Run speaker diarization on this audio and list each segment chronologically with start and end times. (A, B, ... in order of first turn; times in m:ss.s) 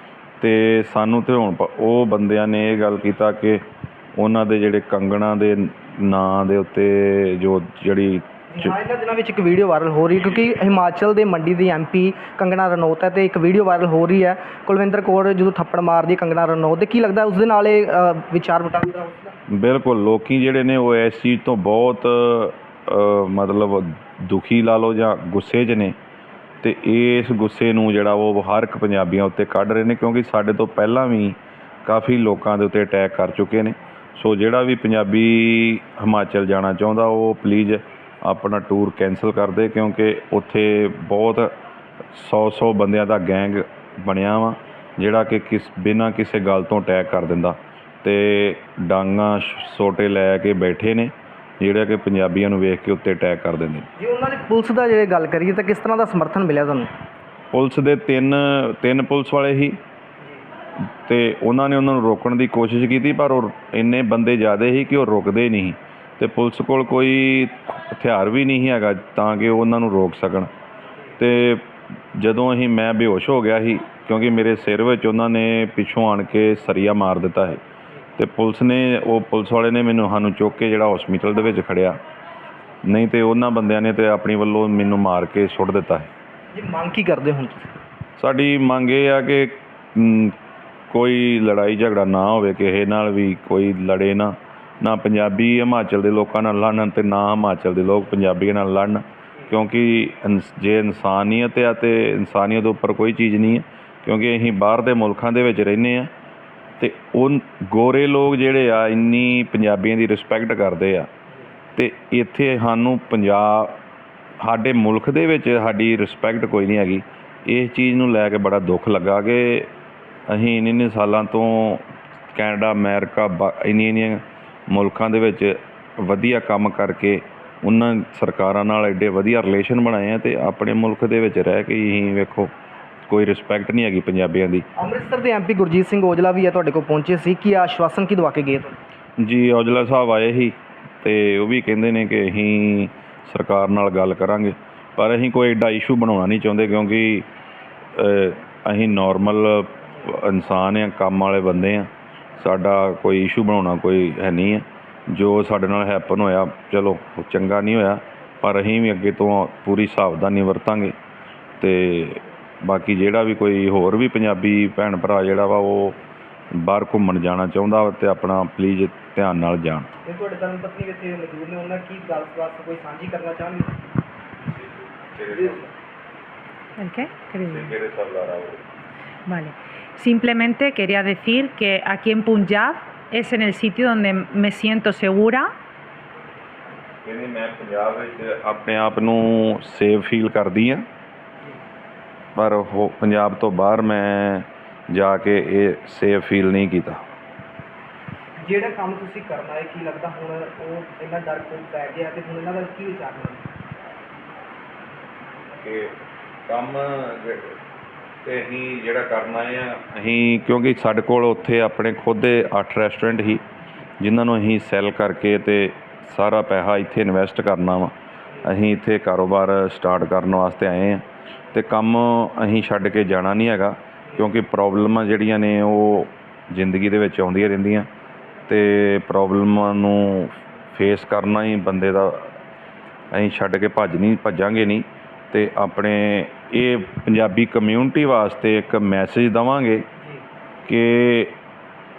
0:00.4-0:08.7 A
0:08.5-0:19.4 B
0:19.5-0:26.0 A
0:26.6-0:41.6 A
0:42.1-0:53.9 A
0:54.0-0:56.9 B
0:57.5-0:59.8 A
1:00.9-1:10.5 A
1:11.2-1:17.6 A
1:18.2-1:22.0 A
1:22.8-1:26.1 A
1:26.5-1:27.8 B
1:28.2-1:30.4 A
1:30.9-1:46.1 A
1:46.8-1:51.1 A
1:51.8-1:53.8 A
1:54.4-1:59.7 A
2:00.3-2:12.5 A
2:13.1-2:14.7 A
2:14.8-2:18.8 B
2:19.2-2:27.3 A
2:28.0-2:41.0 A
2:41.6-2:46.0 A
2:46.5-2:49.9 A
2:50.0-2:53.8 B
2:54.4-2:55.7 A
2:55.3-2:55.7 B
2:56.8-2:57.7 C
2:57.4-2:58.6 A
2:59.3-3:05.5 C
3:07.0-3:10.8 A
3:12.4-3:17.0 A
3:18.4-3:23.5 B
3:25.6-3:27.6 A
3:28.2-3:33.4 A
3:34.0-3:47.9 A
3:48.5-3:52.4 A
3:53.1-3:59.9 A
4:00.6-4:01.4 A